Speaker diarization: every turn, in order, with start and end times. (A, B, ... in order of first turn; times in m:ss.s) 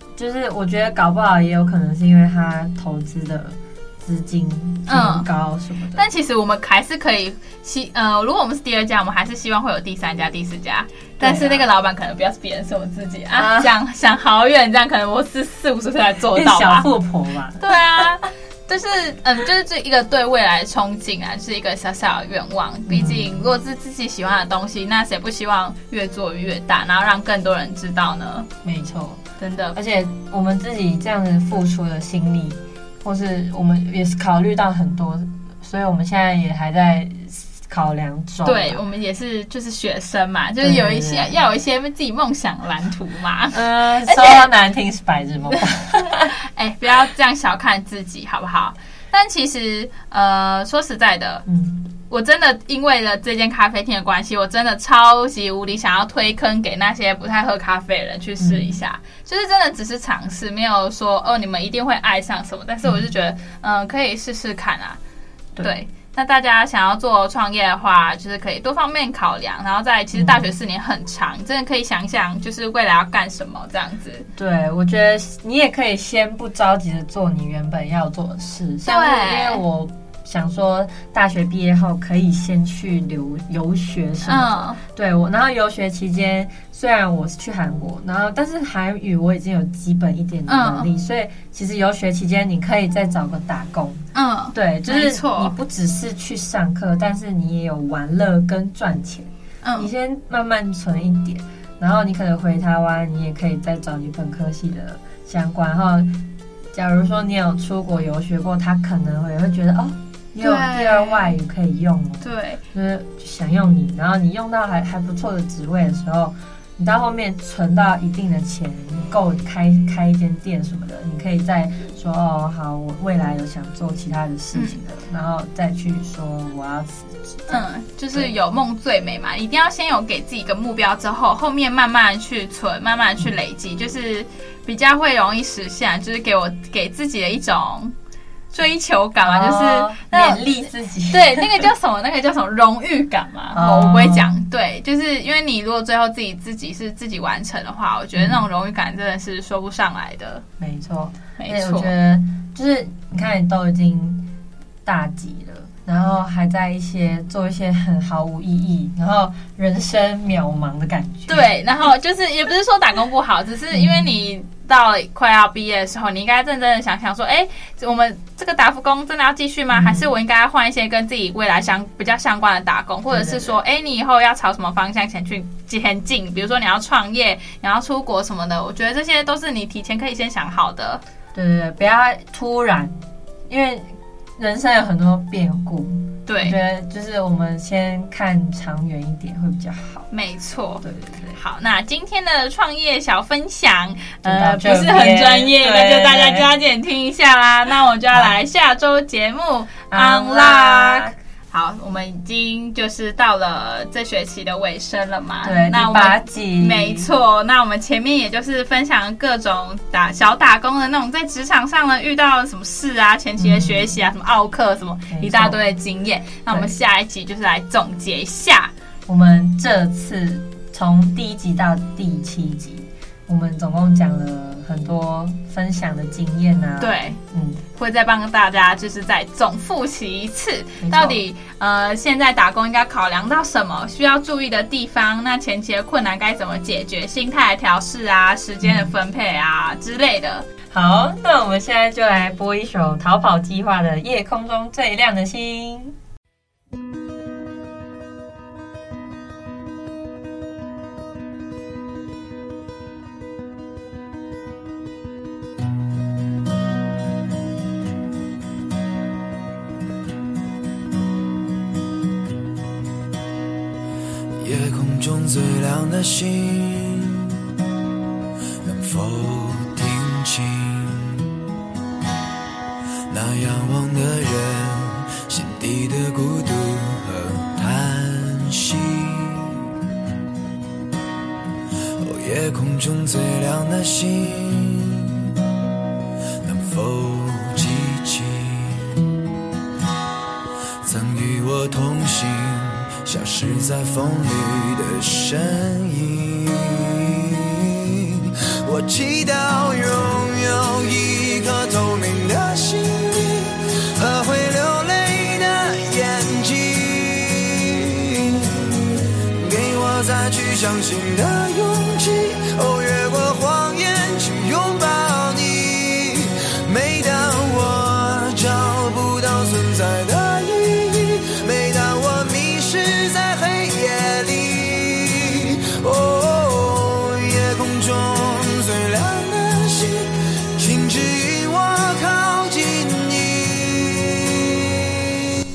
0:00.2-0:06.0 A
0:04.9-0:05.3 B
0:06.0-0:16.9 B
0:11.2-0:11.6 A
0:13.3-0:13.7 A
0:16.3-0:17.7 A
0:17.6-0:28.5 B
0:22.9-0:23.4 A
0:28.6-0:29.2 A
0:29.4-0:29.8 B
0:29.7-0:38.8 A
0:38.4-0:44.5 B
0:40.6-0:41.4 A
0:43.5-0:46.3 A
0:46.2-0:51.4 B
0:51.5-0:51.8 A
0:52.1-1:05.0 B
0:58.4-0:58.7 A
1:05.6-1:14.3 B
1:10.1-1:10.4 A
1:14.4-1:34.0 A
1:18.8-1:19.6 B
1:24.3-1:24.8 B
1:30.5-1:30.9 B
1:34.1-1:35.5 B
1:34.5-2:08.3 A
1:39.6-1:39.9 B
1:50.4-1:51.4 B
1:52.2-1:52.6 B
2:04.5-2:04.8 B
2:07.5-2:17.9 B
2:18.5-2:20.4 B
2:19.2-2:21.7 A
2:21.1-2:30.4 B
2:23.5-2:24.3 A
2:28.2-2:28.4 A
2:30.6-2:34.3 A
2:31.4-2:31.9 B
2:34.8-2:41.5 A
2:41.3-3:01.0 B
2:43.7-2:44.1 A
2:49.7-2:50.1 A
2:53.1-2:53.6 A
3:01.3-3:02.9 A
3:03.5-3:10.1 A
3:06.3-3:06.6 B
3:10.1-3:38.7 B
3:10.8-3:11.4 A
3:14.2-3:16.5 A
3:19.9-3:21.2 A
3:25.4-3:27.1 A
3:33.4-3:33.9 A
3:35.1-3:35.6 A
3:36.5-3:36.8 A
3:39.1-3:47.6 A
3:46.8-3:47.2 B
3:47.7-4:00.5 B
3:50.8-3:51.2 A
3:58.6-3:58.9 A
4:00.7-4:06.0 A
4:24.4-4:27.3 C
4:28.6-4:31.3 C
4:33.1-4:39.6 C
4:42.0-4:45.2 C
4:46.4-4:49.0 C
4:50.8-5:34.9 C